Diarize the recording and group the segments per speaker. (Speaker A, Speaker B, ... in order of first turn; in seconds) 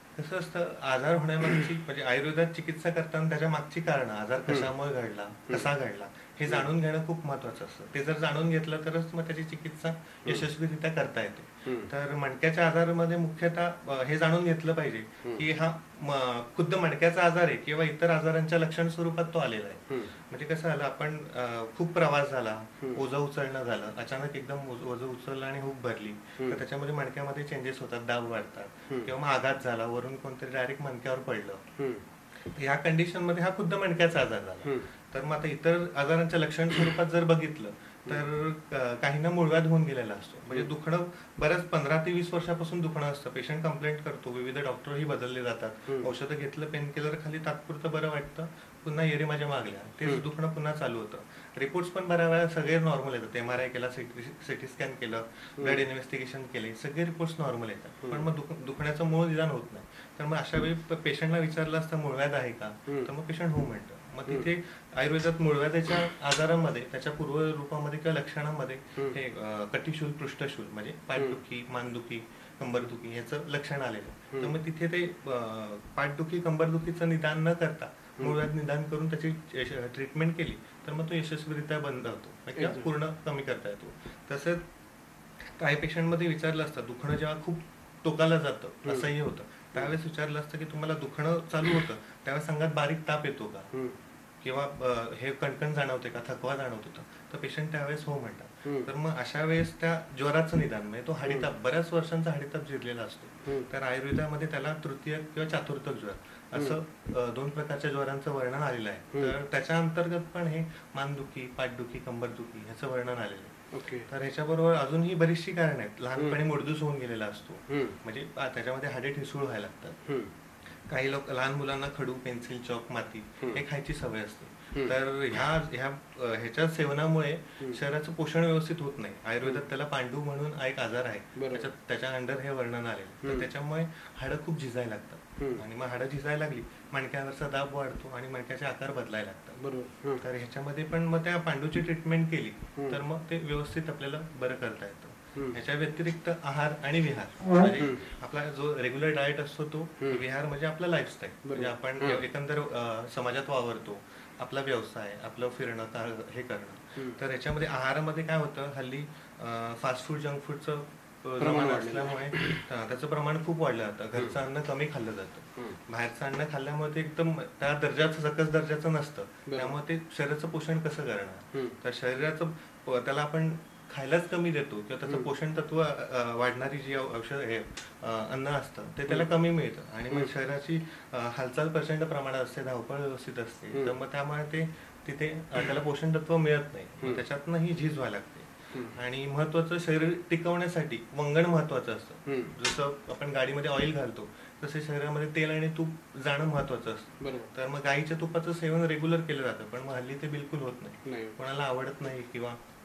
Speaker A: 0.1-31.6, 32.5-84.6, 85.5-93.7, 94.4-113.5, 114.1-120.0, 120.9-139.6, 140.2-202.6
Speaker B: 4.4-4.7, 11.6-11.9, 31.8-32.0, 55.6-55.8, 71.2-71.4, 82.5-82.9, 88.8-89.1, 93.7-94.0, 98.6-98.9, 101.2-101.5, 113.7-114.1, 117.7-118.0, 120.1-120.3, 131.4-131.7, 133.2-133.5, 139.6-140.2, 147.7-148.0, 150.0-150.2, 151.5-152.2, 161.4-162.6, 169.5-169.8, 188.7-189.0, 192.3-192.5, 197.2-197.5, 201.1-201.4